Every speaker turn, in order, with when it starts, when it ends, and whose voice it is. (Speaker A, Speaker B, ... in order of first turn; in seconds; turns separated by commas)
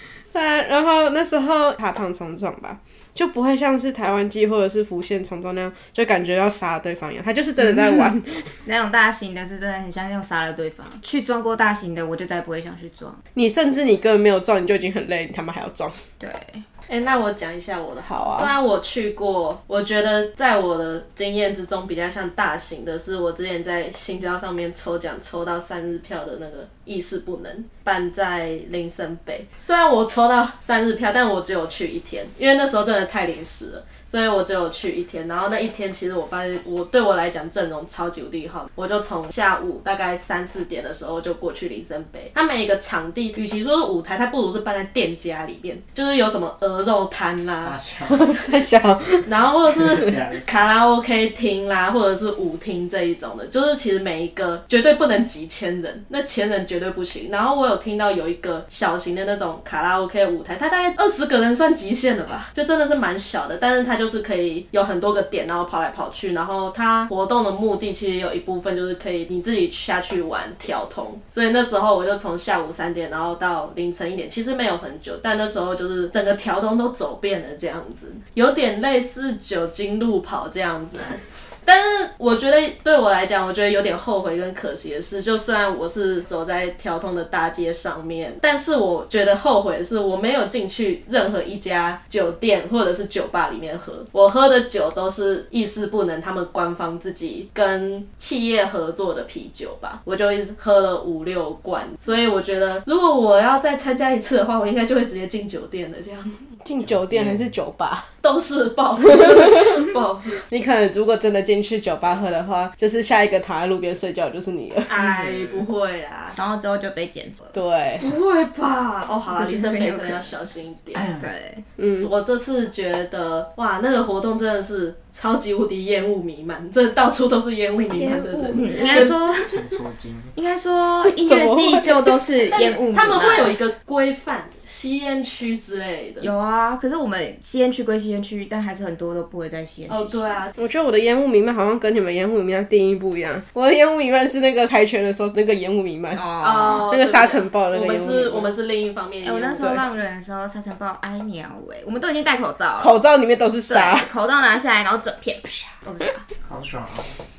Speaker A: 0.3-8.5, Speaker B: 7.6-13.2, Speaker A: 13.3-15.9, Speaker B: 16.2-16.6, Speaker C: 16.9-47.8, Speaker A: 18.1-18.5, Speaker D: 47.6-48.3, Speaker A: 48.1-49.3, Speaker C: 49.2-106.3, Speaker D: 49.9-50.4, Speaker A: 106.6-108.1, Speaker D: 106.8-107.5, Speaker C: 108.2-110.4, Speaker A: 109.0-109.7, Speaker A: 110.5-114.9, Speaker C: 114.9-116.4, Speaker B: 115.0-115.7, Speaker B: 116.3-117.5, Speaker A: 117.5-118.0, Speaker C: 118.0-121.0, Speaker B: 119.3-120.3, Speaker D: 120.9-121.3, Speaker B: 121.2-121.6, Speaker A: 121.8-122.1, Speaker C: 122.0-129.1, Speaker A: 127.9-129.1, Speaker B: 128.5-129.5, Speaker D: 129.3-130.3, Speaker B: 130.3-133.6, Speaker A: 131.0-132.2, Speaker C: 132.5-136.3, Speaker B: 136.2-140.4, Speaker C: 139.9-140.5, Speaker A: 140.6-148.5, Speaker B: 146.1-146.9, Speaker C: 146.4-149.7, Speaker B: 149.2-153.0, Speaker A: 152.8-154.1, Speaker B: 153.7-156.2, Speaker D: 156.4-157.2